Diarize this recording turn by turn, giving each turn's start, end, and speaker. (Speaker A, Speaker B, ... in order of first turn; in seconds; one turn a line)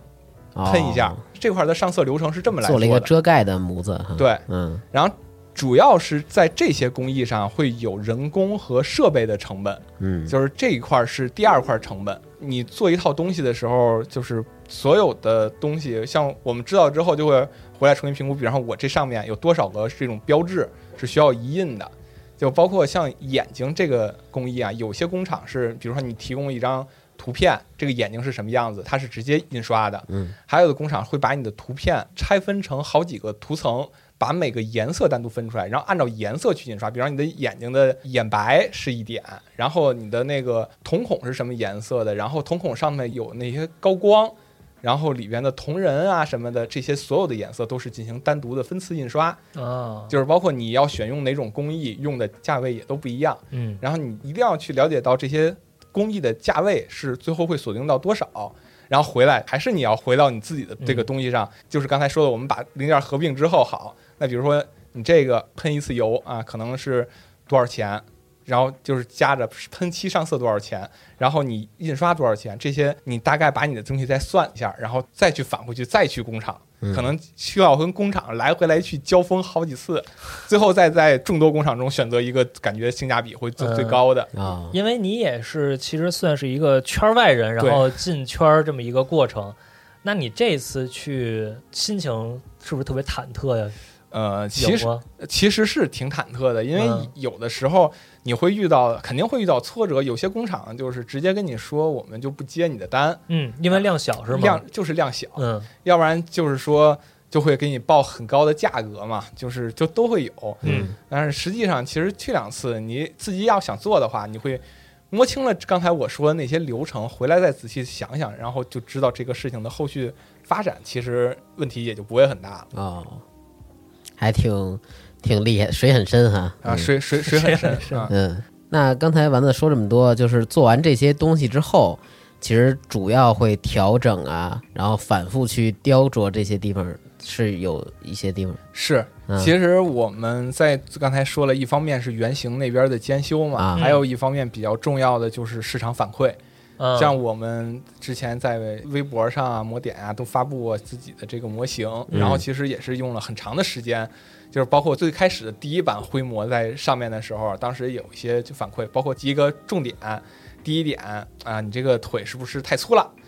Speaker A: 0.6-1.2
Speaker B: 0.6-3.1
Speaker A: 2.6-4.8
Speaker B: 4.2-49.4
Speaker A: 10.0-10.3
Speaker A: 30.1-30.4
Speaker C: 49.5-50.1
Speaker B: 50.1-84.3
Speaker C: 53.5-53.8
Speaker C: 60.8-61.1
Speaker A: 76.8-77.1
Speaker C: 83.6-84.0
Speaker A: 84.3-84.8
Speaker C: 84.7-93.8
Speaker B: 87.6-87.9
Speaker B: 94.1-122.7
Speaker C: 94.6-95.0
Speaker C: 96.7-97.1
Speaker C: 103.3-104.6
Speaker C: 105.4-105.7
Speaker A: 110.6-110.9
Speaker A: 122.7-123.2
Speaker A: 124.2-126.9
Speaker B: 126.6-128.1
Speaker C: 127.2-128.1
Speaker A: 128.1-138.6
Speaker B: 138.7-146.4
Speaker C: 143.8-144.0
Speaker C: 146.8-147.1
Speaker B: 146.9-163.1
Speaker A: 152.1-152.4